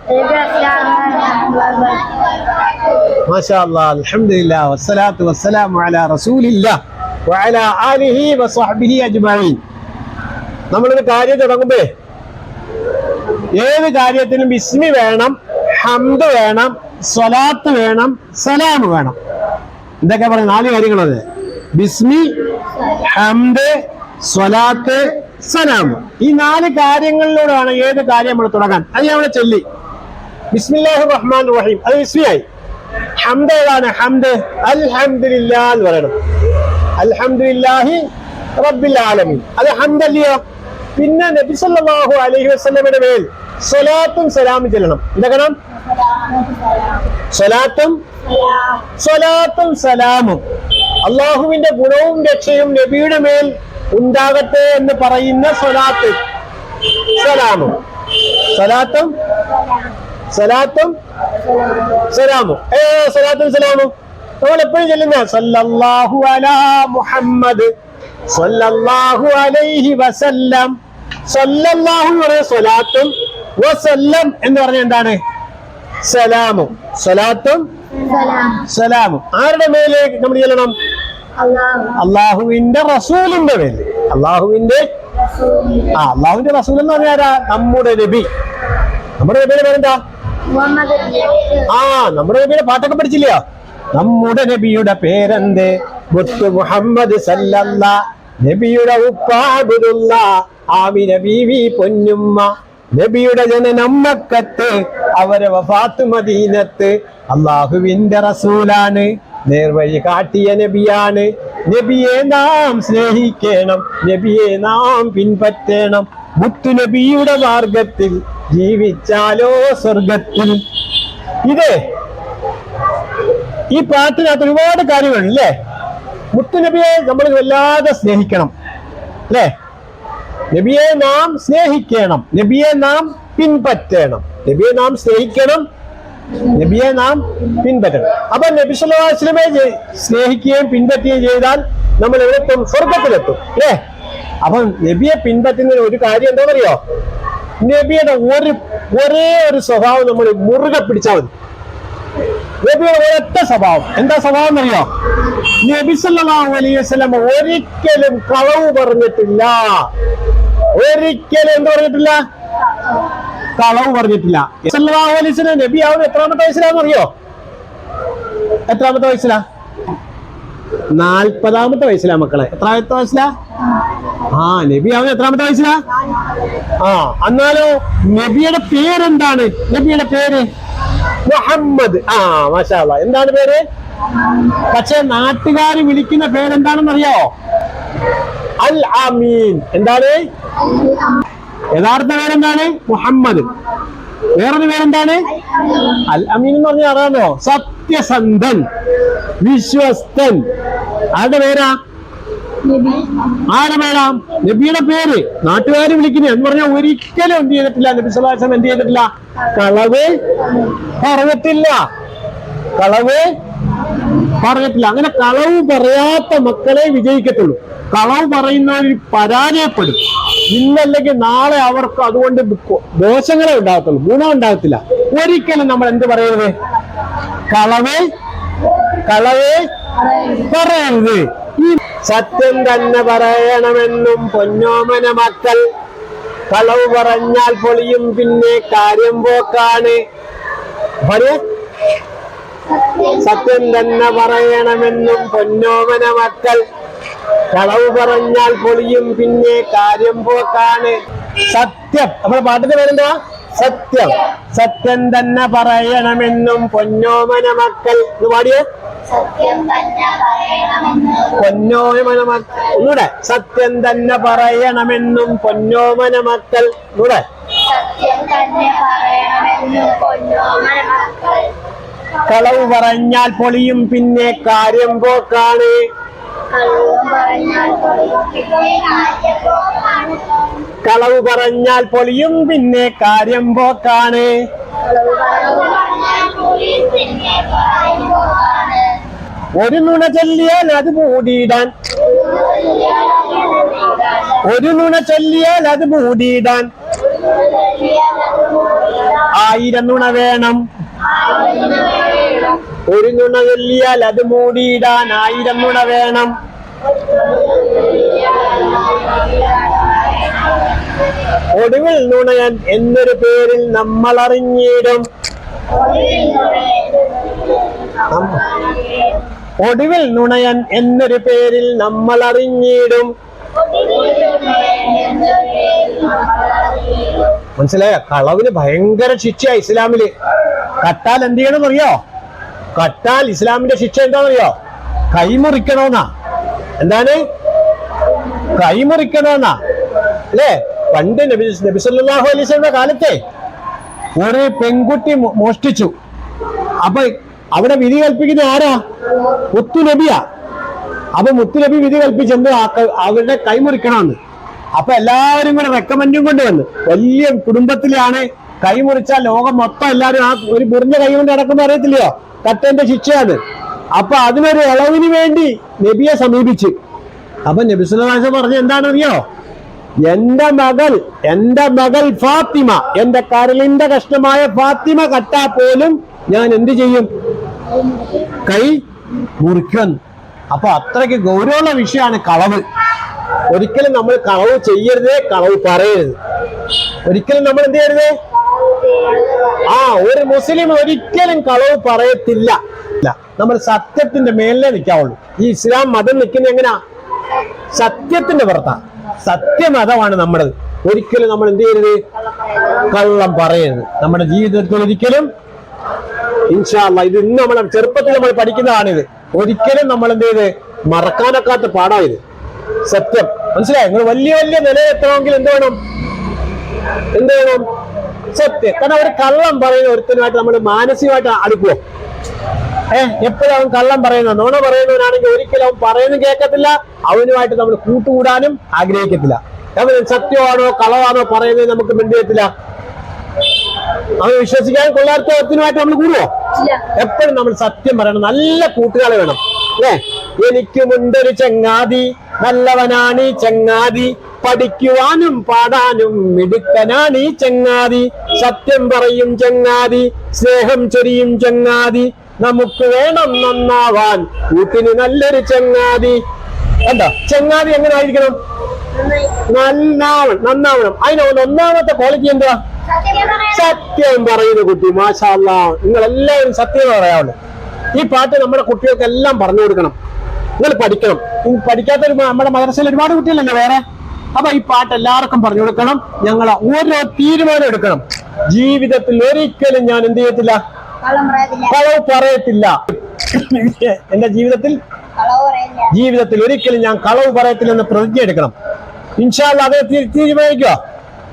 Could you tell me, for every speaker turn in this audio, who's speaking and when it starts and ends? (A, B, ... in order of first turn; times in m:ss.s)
0:00.1-0:02.9 A
0:03.3-0:06.8 B
0:07.3-0:09.6 B
0:10.7-0:11.9 B
0:13.5-0:19.2 B
0:20.0-0:21.2 B
0:21.7-0:29.6 B
0:30.5-0:32.4 B
0:33.2-0:36.1 B
0:37.0-0:38.0 B
0:38.6-0:40.4 B
0:41.0-0:45.6 B
0:46.1-0:46.9 A
0:47.3-0:48.0 B
0:49.0-0:50.4 B
0:51.0-0:56.2 B
0:57.1-0:57.8 B
0:58.4-0:59.1 B
1:00.3-1:00.9 B
1:01.9-1:07.7 B
1:08.3-1:10.7 B
1:11.3-1:15.2 B
1:16.0-1:17.6 B
1:18.0-1:18.6 A
1:18.6-1:20.7 B
1:21.4-1:22.0 A
1:22.0-1:24.8 B
1:25.2-1:25.9 A
1:25.9-1:28.3 B
1:29.2-1:30.0 B
1:30.5-1:31.7 A
1:31.6-1:33.4 B
1:33.9-2:00.6 B
2:01.4-2:01.8 B
2:03.7-2:05.5 B
2:06.3-2:08.5 B
2:10.5-2:15.6 B
2:16.5-2:23.8 B
2:24.4-2:26.8 B
2:27.6-2:31.3 B
2:32.6-2:34.9 B
2:35.6-2:39.9 B
2:40.7-2:42.2 B
2:43.6-2:47.1 B
2:48.7-2:49.4 B
2:50.9-2:53.3 B
2:54.3-2:55.8 B
2:56.8-3:00.4 B
3:01.3-3:03.6 B
3:04.6-3:07.3 B
3:08.6-3:10.2 B
3:10.7-3:11.0 A
3:11.7-3:13.5 B
3:14.4-3:15.3 B
3:15.9-3:18.6 B
3:19.4-3:20.4 B
3:21.1-3:21.8 B
3:22.6-3:23.4 A
3:23.5-3:30.1 B
3:30.4-3:30.7 A
3:30.8-3:31.8 B
3:32.8-3:33.2 B
3:34.2-3:40.0 B
3:40.5-3:46.5 B
3:47.5-3:48.0 B
3:49.0-3:49.6 B
3:50.0-3:50.4 A
3:50.2-3:55.6 B
3:56.5-4:00.0 B
4:01.0-4:01.4 B
4:02.8-4:03.2 A
4:03.2-4:06.6 B
4:07.5-4:11.0 B
4:11.5-4:18.6 B
4:19.1-4:21.4 A
4:21.3-4:27.2 B
4:27.6-4:31.5 A
4:32.2-4:35.8 B
4:36.5-4:40.4 A
4:40.8-4:44.3 B
4:44.8-4:49.0 A
4:49.6-4:51.7 B
4:52.0-4:54.4 A
4:54.4-4:56.7 B
4:57.1-4:59.3 A
4:59.3-5:00.6 B
5:01.1-5:02.6 A
5:02.9-5:06.3 B
5:07.1-5:10.5 A
5:11.6-5:15.1 B
5:15.7-5:19.2 A
5:18.1-5:18.5 B
5:19.6-5:23.1 B
5:23.6-5:27.3 A
5:27.6-5:30.1 B
5:30.8-5:32.0 B
5:32.8-5:34.5 B
5:35.1-5:36.0 B
5:36.8-5:37.2 B
5:38.6-5:39.6 B
5:40.3-5:43.2 B
5:44.2-5:45.9 B
5:46.8-5:48.8 B
5:49.5-5:50.2 B
5:51.2-5:54.2 B
5:54.8-6:03.4 B
6:04.0-6:06.7 B
6:07.5-6:09.2 B
6:10.0-6:17.1 B
6:18.4-6:18.8 B
6:19.4-6:20.0 B
6:20.5-6:22.6 B
6:23.5-6:26.2 B
6:27.0-6:28.1 B
6:28.7-6:29.6 A
6:29.6-6:36.8 B
6:37.7-6:42.0 B
6:42.8-6:45.3 B
6:46.5-6:52.2 B
6:52.8-6:55.8 B
6:57.1-6:57.6 B
6:58.3-7:01.8 B
7:02.9-7:12.5 B
7:14.2-7:16.3 B
7:16.6-7:16.9 A
7:16.9-7:36.2 B
7:36.8-7:38.4 B
7:39.5-7:42.6 B
7:42.9-7:43.6 A
7:43.4-7:47.3 B
7:48.0-7:50.0 B
7:50.6-7:53.8 B
7:54.3-8:00.6 B
8:01.0-8:01.7 A
8:01.7-8:04.8 B
8:05.2-8:05.9 A
8:05.9-8:08.5 B
8:09.2-8:10.8 B